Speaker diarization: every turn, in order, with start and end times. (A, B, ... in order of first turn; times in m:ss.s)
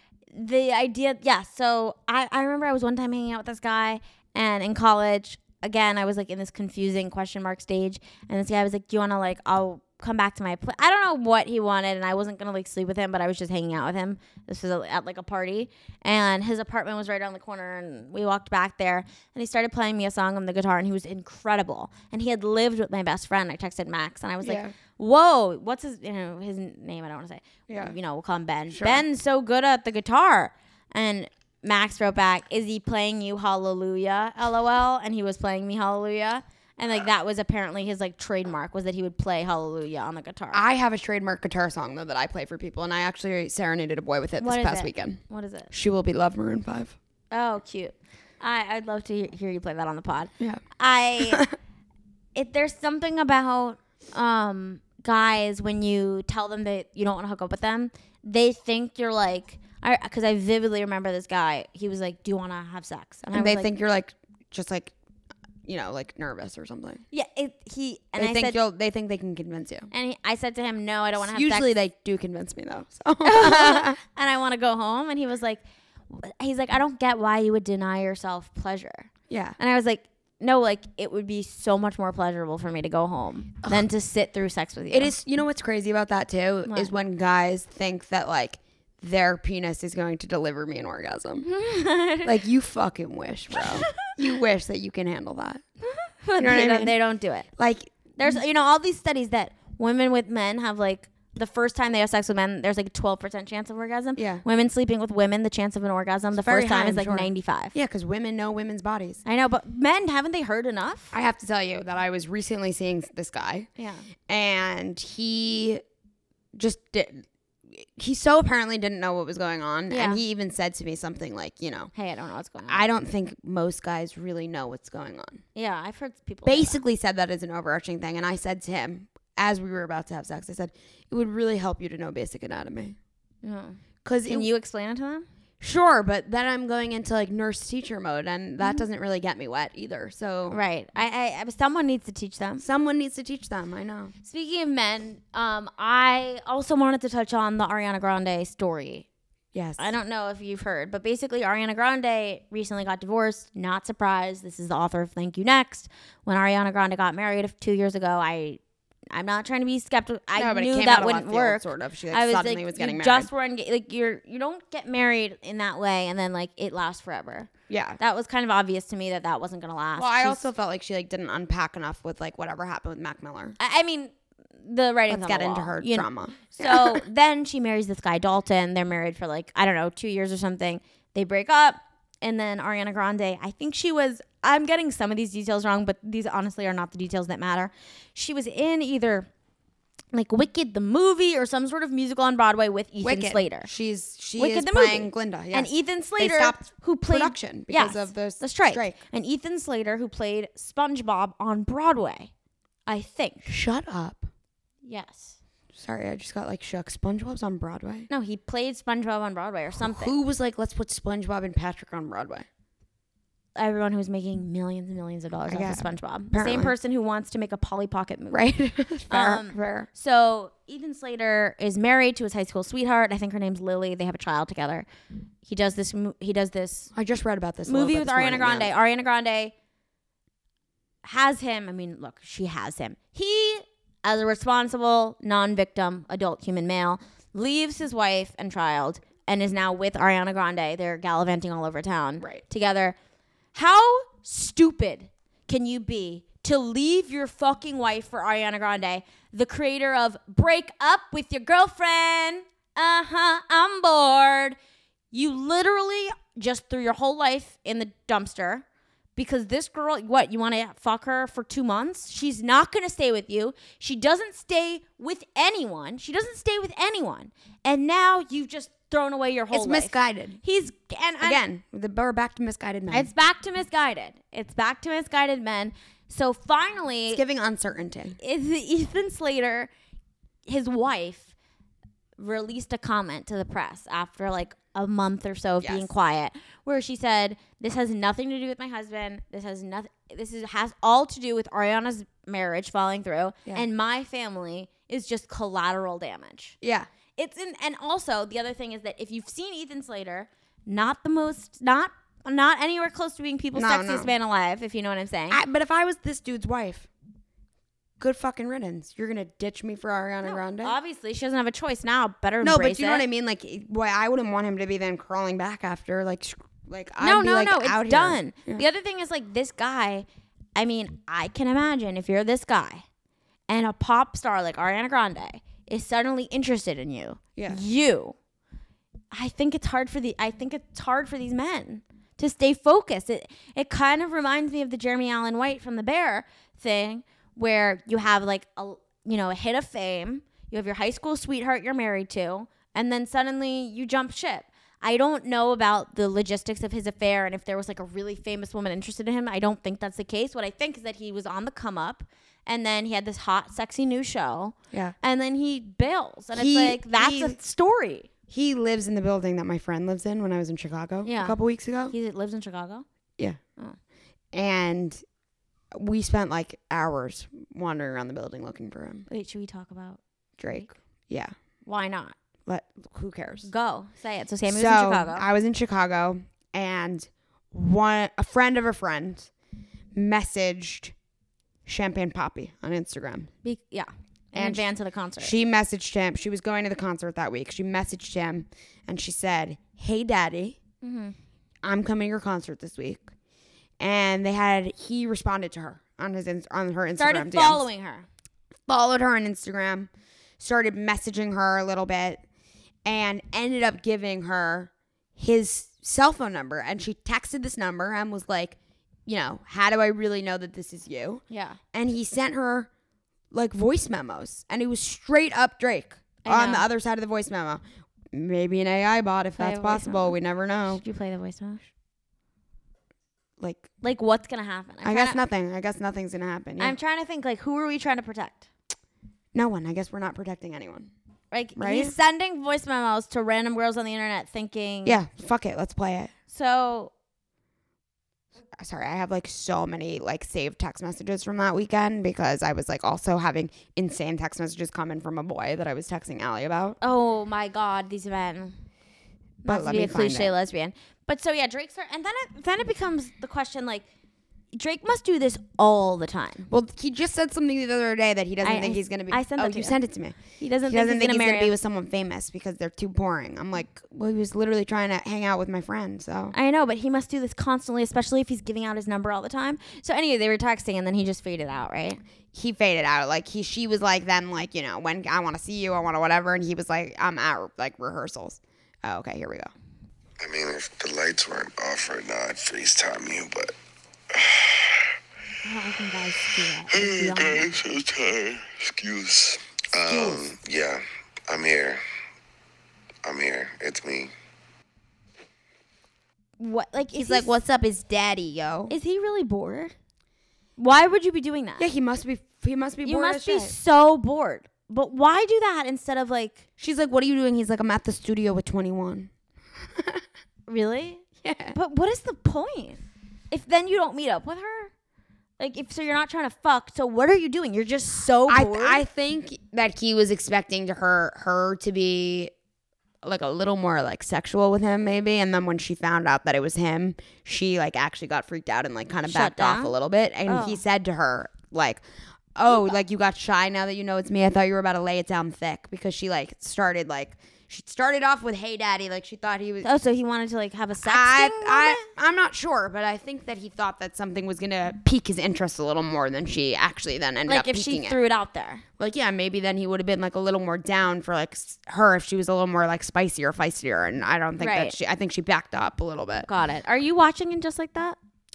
0:00.3-0:40.6 A
0:24.4-0:24.7 B
0:27.7-0:27.9 B
0:28.7-0:29.0 B
0:40.5-0:46.9 B
0:44.4-0:45.7 A
0:47.3-0:51.5 A
0:51.2-0:51.5 B
0:52.3-1:03.7 A
1:03.3-1:04.9 B
1:05.6-1:07.0 B
1:07.1-1:08.6 A
1:08.2-1:09.9 B
1:09.9-1:11.7 A
1:11.2-1:14.0 B
1:13.2-1:25.1 A
1:19.3-1:19.6 B
1:24.9-1:31.5 B
1:26.6-1:26.9 A
1:31.4-1:32.4 A
1:32.2-1:35.6 B
1:35.8-1:37.5 A
1:36.4-1:37.0 B
1:37.6-1:38.4 B
1:38.2-1:47.7 A
1:44.2-1:44.4 B
1:46.4-1:49.2 B
1:49.2-1:51.1 A
1:51.1-1:53.7 B
1:53.8-1:54.1 A
1:54.3-1:55.8 B
1:56.5-2:01.9 B
1:59.9-2:00.2 A
2:01.9-2:02.8 A
2:02.7-2:05.4 B
2:05.5-2:06.8 A
2:06.4-2:13.0 B
2:13.4-2:15.2 A
2:14.0-2:14.5 B
2:15.6-2:20.6 B
2:20.5-2:22.6 A
2:22.6-2:24.1 B
2:24.2-2:29.1 A
2:29.5-2:29.8 B
2:29.8-2:38.6 A
2:39.1-2:50.4 A
2:40.4-2:43.3 B
2:47.7-2:48.0 B
2:50.0-2:53.6 B
2:53.6-3:09.3 A
2:55.1-2:57.0 B
3:10.1-3:13.7 A
3:13.0-3:19.0 B
3:14.4-3:22.3 A
3:22.8-3:23.5 A
3:23.4-3:24.2 B
3:24.8-3:25.4 A
3:25.7-3:28.1 B
3:28.1-3:30.1 A
3:29.8-3:32.5 B
3:33.6-3:38.4 A
3:35.5-3:36.7 B
3:38.3-3:39.9 B
3:39.1-3:44.8 A
3:45.4-3:46.9 A
3:46.9-3:48.7 B
3:47.6-3:49.5 A
3:51.0-4:03.0 A
4:03.5-4:14.6 A
4:15.1-4:18.6 A
4:19.2-4:31.4 A
4:29.5-4:30.4 B
4:31.2-4:33.1 B
4:32.9-4:37.2 A
4:37.1-4:38.2 B
4:38.2-4:39.7 A
4:40.4-4:41.3 A
4:42.2-4:56.6 A
4:45.6-4:45.9 B
4:56.6-4:56.9 B
4:57.2-5:05.4 A
5:03.5-5:04.1 B
5:05.3-5:06.9 B
5:08.0-5:10.8 B
5:10.2-5:13.1 A
5:12.4-5:18.6 B
5:17.0-5:22.8 A
5:23.5-5:28.1 A
5:27.4-5:27.6 B
5:29.1-5:58.1 A
5:56.3-5:57.4 B
5:58.3-6:01.9 B
6:01.0-6:01.4 A
6:01.9-6:02.8 A
6:04.3-6:05.0 B
6:05.8-6:09.1 B
6:09.1-6:10.0 A
6:10.4-6:11.3 B
6:11.6-6:12.1 A
6:12.4-6:13.5 B
6:13.4-6:15.2 A
6:14.4-6:19.3 B
6:19.9-6:20.9 B
6:21.6-6:23.3 B
6:23.4-6:25.3 A
6:24.4-6:24.6 B
6:25.2-6:30.6 B
6:30.8-6:31.2 A
6:31.6-6:33.0 B
6:33.8-6:37.7 B
6:36.9-6:38.1 A
6:38.7-6:42.2 B
6:42.8-6:52.7 B
6:51.3-6:51.6 A
6:53.3-7:00.8 B
6:56.2-6:56.7 A
6:59.4-7:00.2 A
7:00.7-7:01.7 A
7:03.4-7:03.7 B
7:03.8-7:05.2 A
7:04.8-7:06.8 B
7:06.6-7:08.5 A
7:09.3-7:10.9 B
7:11.3-7:15.0 A
7:11.6-7:11.9 B
7:14.8-7:16.1 B
7:16.3-7:16.9 A
7:18.6-7:26.8 B
7:26.8-7:28.6 A
7:29.4-7:33.9 A
7:29.5-7:30.4 B
7:34.5-7:36.4 A
7:36.5-7:46.3 B
7:38.4-7:39.8 A
7:40.4-7:41.5 A
7:46.3-7:52.0 A
7:52.3-7:59.5 B
8:00.2-8:03.5 C
8:04.1-8:04.9 C
8:05.4-8:07.5 A
8:06.6-8:11.8 C
8:09.9-8:10.2 B
8:13.0-8:14.1 C
8:16.4-8:17.3 A
8:16.9-8:18.7 B
8:18.7-8:19.7 A
8:20.6-8:21.7 A
8:21.6-8:23.6 B
8:22.8-8:26.4 A
8:26.6-8:29.1 B
8:29.8-8:30.0 B
8:30.5-8:34.7 A
8:31.2-8:31.6 B
8:35.4-8:38.8 A
8:38.3-8:42.3 B
8:43.0-8:51.8 B
8:49.0-8:49.7 A
8:50.2-8:50.6 A
8:52.4-8:59.7 B
8:52.5-8:52.8 A
8:59.6-9:01.9 A
9:00.8-9:08.0 B
9:07.3-9:08.6 A
9:08.8-9:16.3 B
9:14.4-9:14.8 A
9:16.2-9:18.0 A